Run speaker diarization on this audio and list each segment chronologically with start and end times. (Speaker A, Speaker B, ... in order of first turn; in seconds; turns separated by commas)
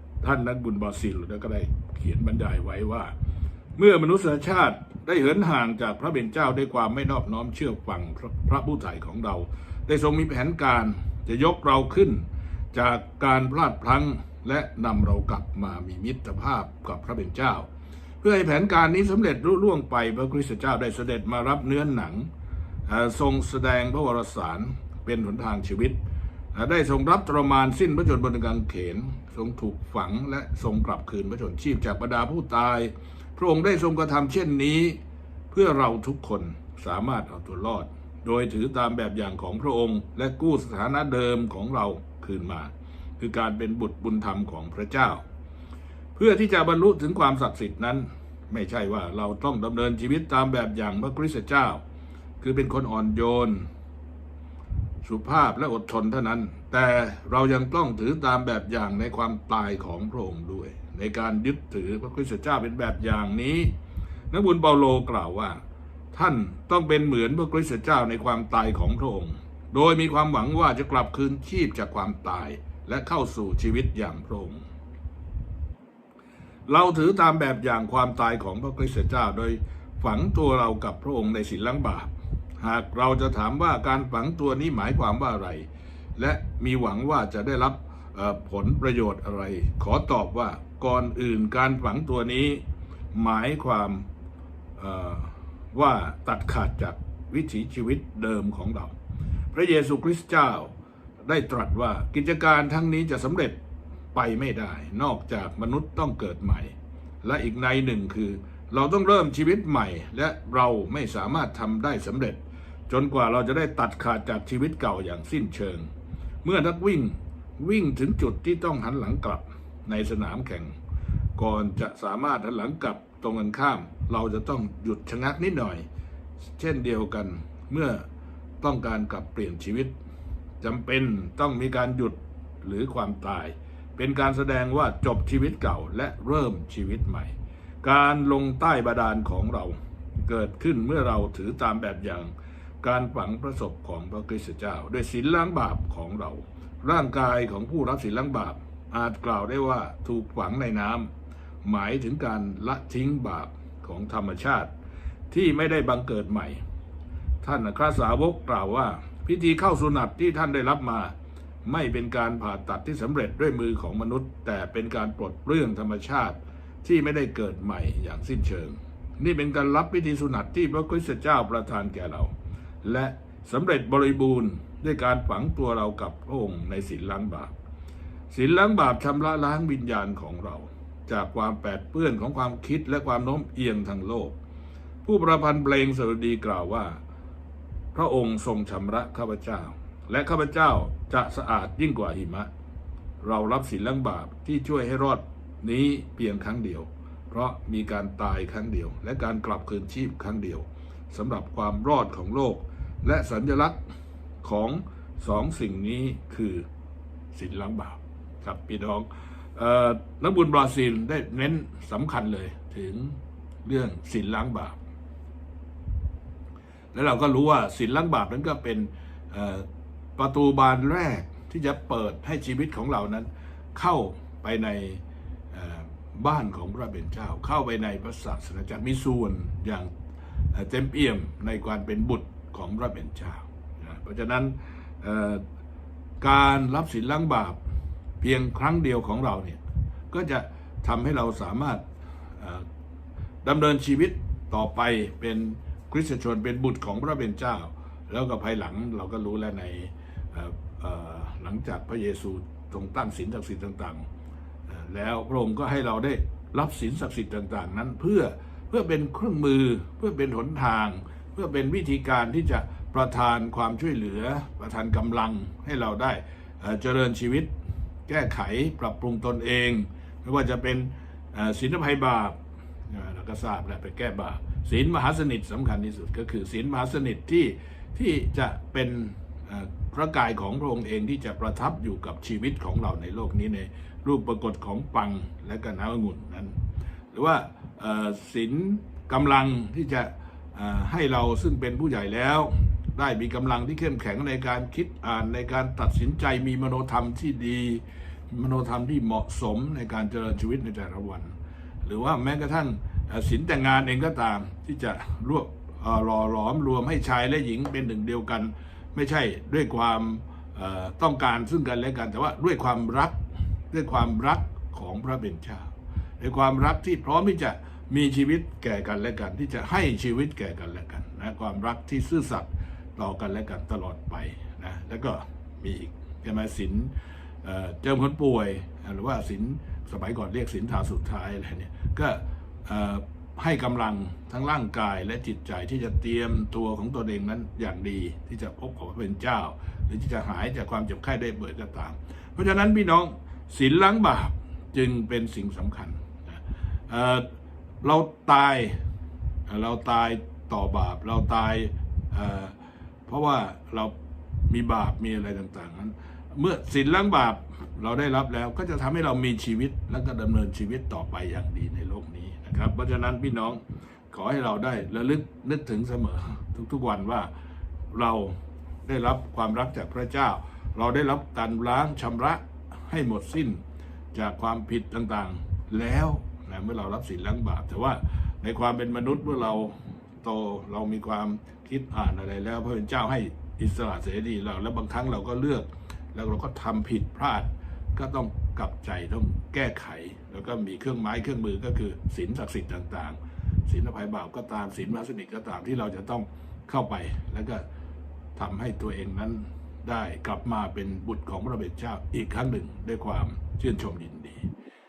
Speaker A: 0.2-3.1, Speaker A: 3.8-17.7, Speaker A: 18.2-22.3, Speaker A: 22.9-26.0, Speaker A: 26.5-35.0, Speaker A: 35.5-45.2, Speaker A: 46.1-51.8, Speaker A: 52.4-53.7, Speaker A: 55.0-63.7, Speaker A: 64.3-65.6, Speaker A: 66.1-74.6, Speaker A: 76.7-94.0, Speaker A: 94.8-98.9, Speaker A: 99.5-100.7, Speaker A: 101.2-103.6, Speaker A: 104.1-115.9, Speaker A: 116.4-120.8, Speaker A: 121.4-125.8, Speaker A: 126.6-128.1, Speaker A: 128.6-129.9, Speaker A: 130.6-151.1, Speaker A: 151.6-154.7, Speaker A: 155.3-156.6, Speaker A: 157.4-161.1, Speaker A: 161.6-177.5, Speaker A: 178.3-184.3, Speaker A: 185.0-187.0, Speaker A: 187.9-192.5, Speaker A: 193.2-203.8, Speaker A: 204.4-206.7, Speaker A: 207.3-214.8, Speaker A: 216.9-229.9, Speaker A: 230.5-235.4, Speaker A: 236.2-237.6, Speaker A: 238.2-239.6, Speaker A: 240.1-242.7, Speaker A: 243.4-254.0, Speaker A: 254.7-267.5, Speaker A: 268.1-286.6, Speaker A: 287.1-347.3, Speaker A: 347.8-348.8, Speaker A: 349.5-353.9, Speaker A: 354.5-367.3, Speaker A: 367.9-373.6, Speaker A: 374.1-397.6, Speaker A: 398.4-404.5